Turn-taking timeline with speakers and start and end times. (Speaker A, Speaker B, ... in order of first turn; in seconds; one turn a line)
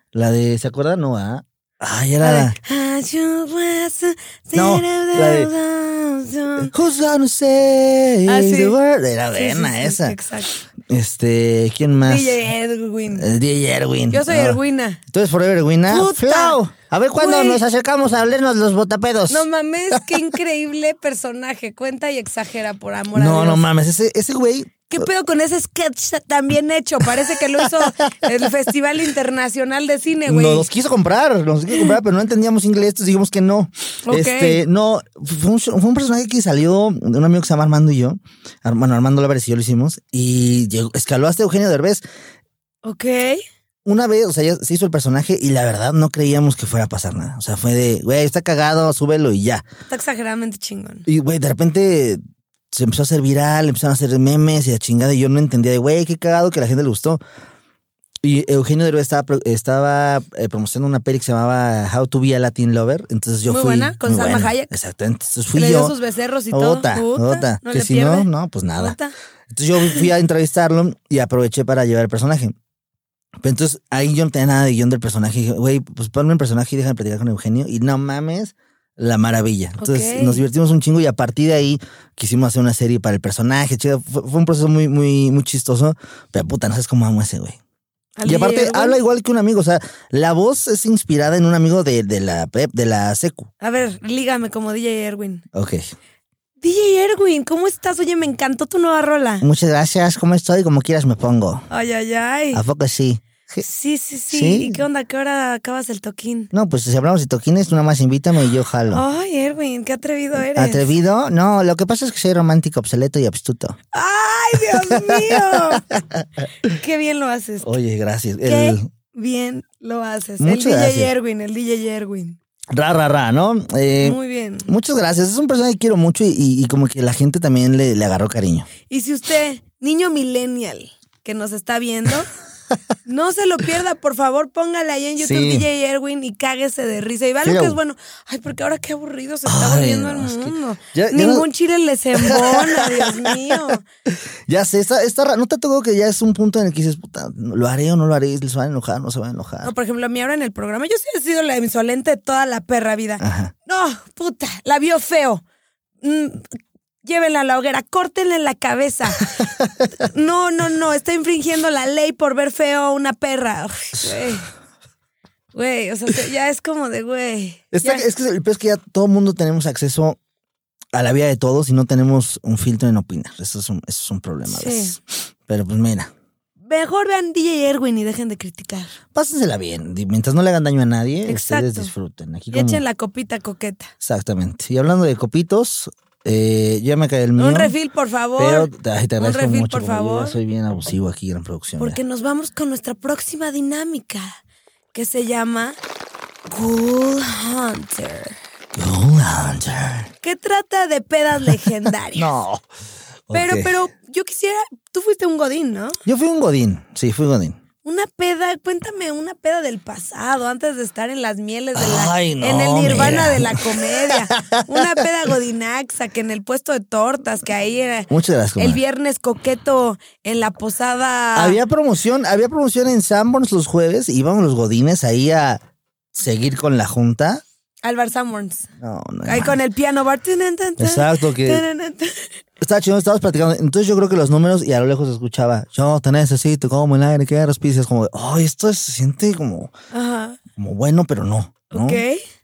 Speaker A: 0.1-2.5
Speaker B: 2.2-6.7
Speaker A: 4.5-5.5
Speaker A: 6.6-10.2
Speaker B: 8.3-8.7
Speaker B: 9.3-10.5
Speaker A: 10.8-12.4
Speaker B: 12.0-13.2
Speaker A: 13.1-14.6
Speaker B: 14.1-15.0
Speaker A: 15.1-20.2
Speaker B: 15.9-16.6
Speaker B: 17.2-17.6
Speaker B: 19.3-23.6
Speaker A: 23.1-25.1
Speaker B: 24.9-30.7
Speaker A: 30.3-42.0
Speaker B: 34.0-34.6
Speaker B: 42.8-43.4
Speaker A: 43.8-49.6
Speaker B: 49.9-51.0
Speaker A: 51.1-52.2
Speaker A: 52.7-57.2
Speaker A: 58.2-65.9
Speaker B: 63.5-64.7
Speaker B: 65.5-69.1
Speaker A: 66.5-69.0
Speaker A: 69.5-72.5
Speaker A: 73.4-87.6
Speaker B: 79.8-80.4
Speaker B: 88.2-89.0
Speaker A: 88.2-93.5
Speaker B: 93.6-95.4
Speaker A: 95.5-95.9
Speaker B: 96.6-99.4
Speaker A: 99.4-101.6
Speaker B: 101.7-102.6
Speaker A: 102.5-103.6
Speaker B: 103.6-106.5
Speaker A: 104.3-104.8
Speaker A: 106.5-109.0
Speaker B: 108.9-110.9
Speaker A: 110.5-113.8
Speaker B: 113.9-115.8
Speaker A: 114.9-116.2
Speaker B: 116.7-117.7
Speaker A: 117.6-118.8
Speaker B: 118.4-122.4
Speaker A: 120.4-121.1
Speaker A: 122.7-128.7
Speaker B: 124.0-124.7
Speaker B: 128.9-132.3
Speaker B: 133.0-143.8
Speaker A: 135.2-135.7
Speaker A: 137.4-137.8
Speaker A: 139.4-141.4
Speaker A: 142.1-143.6
Speaker A: 144.5-149.7
Speaker B: 149.6-155.4
Speaker A: 153.2-153.5
Speaker B: 156.0-156.5
Speaker B: 157.0-159.3
Speaker A: 159.4-159.9
Speaker B: 160.0-164.5
Speaker B: 165.5-168.0
Speaker A: 167.7-170.2
Speaker A: 170.9-176.1
Speaker B: 174.5-174.9
Speaker B: 176.6-178.9
Speaker A: 179.1-182.8
Speaker B: 181.3-181.9
Speaker B: 182.5-183.9
Speaker A: 184.0-187.7
Speaker B: 187.4-190.4
Speaker A: 188.4-192.0
Speaker B: 191.8-194.3
Speaker B: 194.9-195.8
Speaker B: 196.5-198.4
Speaker A: 198.7-200.1
Speaker B: 200.2-202.3
Speaker A: 202.1-202.6
Speaker A: 203.3-203.7
Speaker B: 203.3-206.0
Speaker A: 206.0-207.6
Speaker B: 207.8-221.6
Speaker A: 211.8-215.1
Speaker A: 218.1-218.8
Speaker A: 221.3-225.6
Speaker A: 226.1-227.4
Speaker B: 227.8-228.7
Speaker A: 228.8-229.6
Speaker B: 229.2-232.3
Speaker A: 230.8-231.6
Speaker A: 232.6-239.7
Speaker B: 239.9-240.4
Speaker A: 240.5-242.0
Speaker B: 241.7-242.2